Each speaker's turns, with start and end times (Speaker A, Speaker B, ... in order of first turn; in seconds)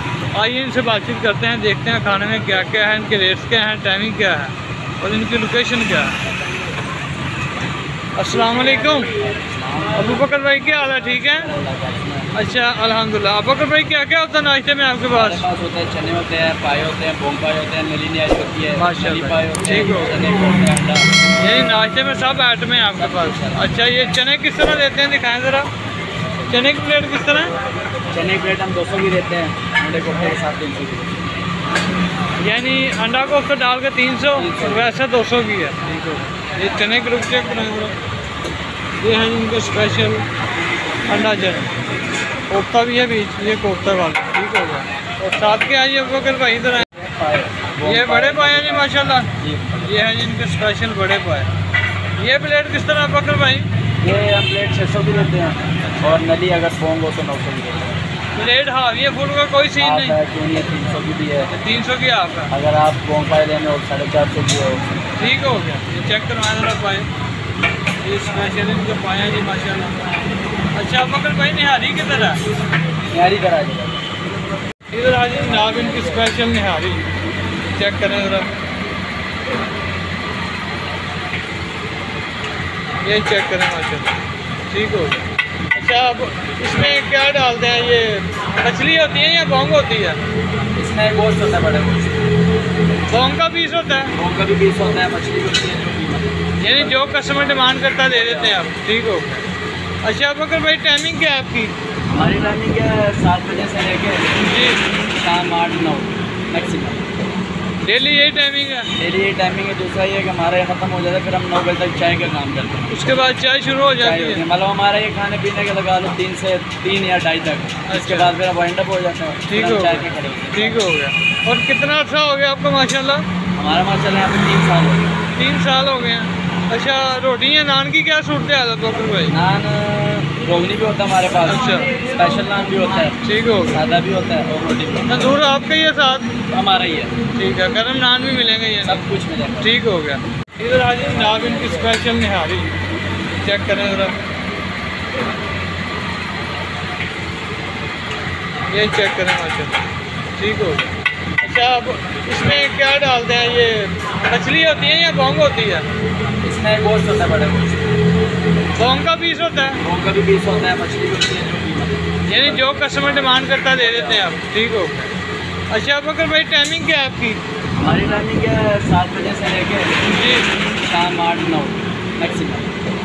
Speaker A: 0.3-6.2, 8.2-9.1, 9.9-11.5, 12.3-15.5, 18.8-20.2, 21.4-25.7, 26.5-27.5, 32.4-38.0, 39.0-40.3, 41.1-41.7, 42.5-46.9, 47.8-51.5, 52.2-53.7, 55.8-56.2, 58.4-60.2, 61.5-62.5, 65.2-67.1, 68.0-70.0, 70.7-72.4, 74.9-77.1, 77.7-78.5, 83.0-84.2, 84.7-90.2, 93.1-94.1, 96.6-99.4, 100.0-101.7, 104.5-104.8, 107.8-108.9, 112.9-114.4, 117.9-118.4, 119.5-123.2, 125.4-129.3, 131.5-131.9, 133.2-133.8, 135.1-136.3, 137.4-139.1, 139.6-142.8, 143.4-144.2, 148.7-149.9, 150.4-150.9, 151.4-155.9, 158.8-159.8, 162.3-165.1, 165.7-167.4, 170.1-170.5
Speaker B: 9.2-10.3, 11.3-12.3, 15.1-21.1, 22.9-23.8, 28.1-31.2, 34.3-34.9, 46.9-50.0, 54.0-58.0, 59.8-61.5, 62.5-65.2, 73.1-74.1, 90.8-92.2, 94.2-98.6, 102.1-104.3, 105.2-107.1, 109.0-112.9, 114.0-120.9, 123.6-125.2, 129.3-135.2, 136.5-137.1, 138.8-139.7, 156.4-157.9, 159.8-162.6, 163.5-164.3, 167.8-169.9, 170.8-172.7